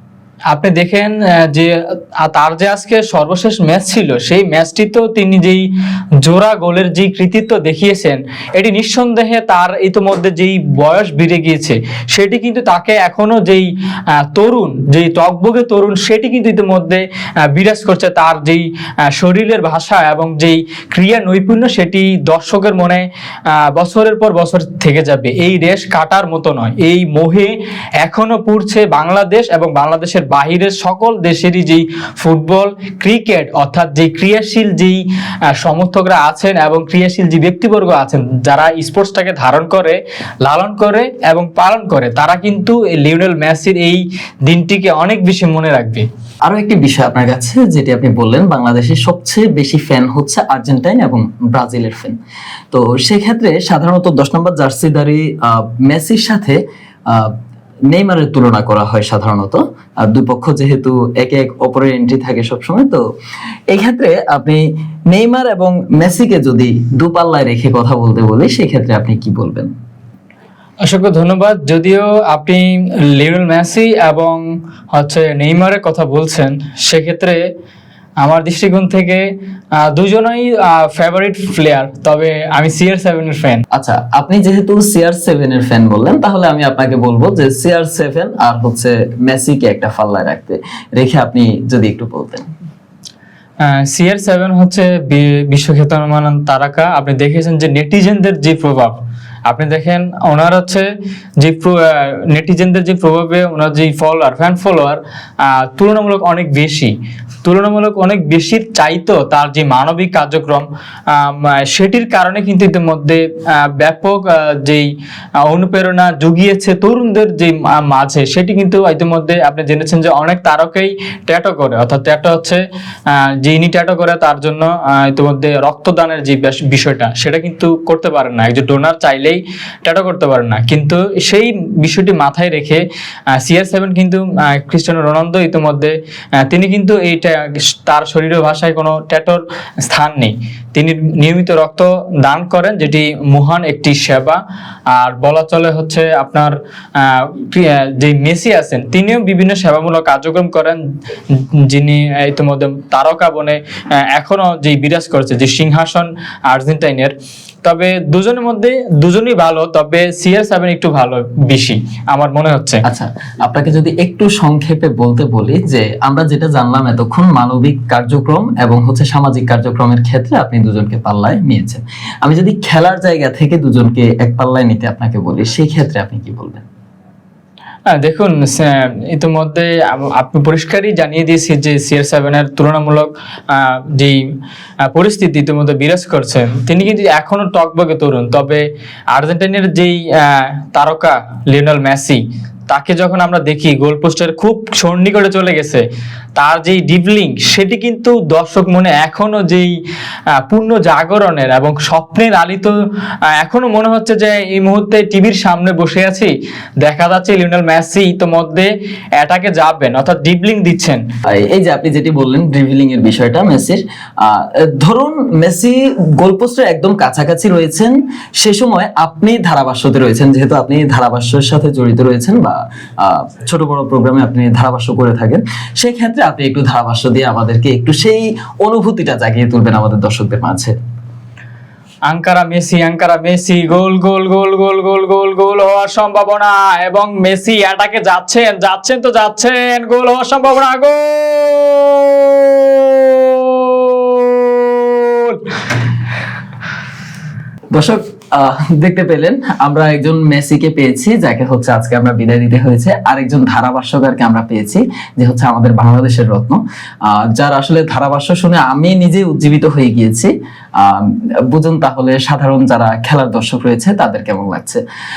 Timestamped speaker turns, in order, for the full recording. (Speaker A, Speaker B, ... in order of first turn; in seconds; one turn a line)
Speaker A: 0.5-5.7
Speaker A: 6.2-35.0
Speaker A: 35.5-46.1
Speaker B: 46.5-52.2
Speaker B: 52.7-57.4
Speaker B: 57.9-63.0
Speaker B: 63.7-69.7
Speaker A: 70.8-77.4
Speaker A: 78.2-79.2
Speaker A: 79.8-83.6
Speaker B: 83.7-92.5
Speaker A: 93.6-100.9
Speaker A: 101.4-106.9
Speaker A: 107.5-114.9
Speaker A: 115.4-162.8
Speaker B: 162.8-176.7
Speaker A: 177.9-184.2
Speaker A: 184.9-195.8
Speaker A: 196.4-199.7
Speaker A: 200.3-202.8
Speaker A: 203.4-211.0
Speaker B: 211.3-230.8
Speaker A: 232.1-245.8
Speaker B: 247.7-264.8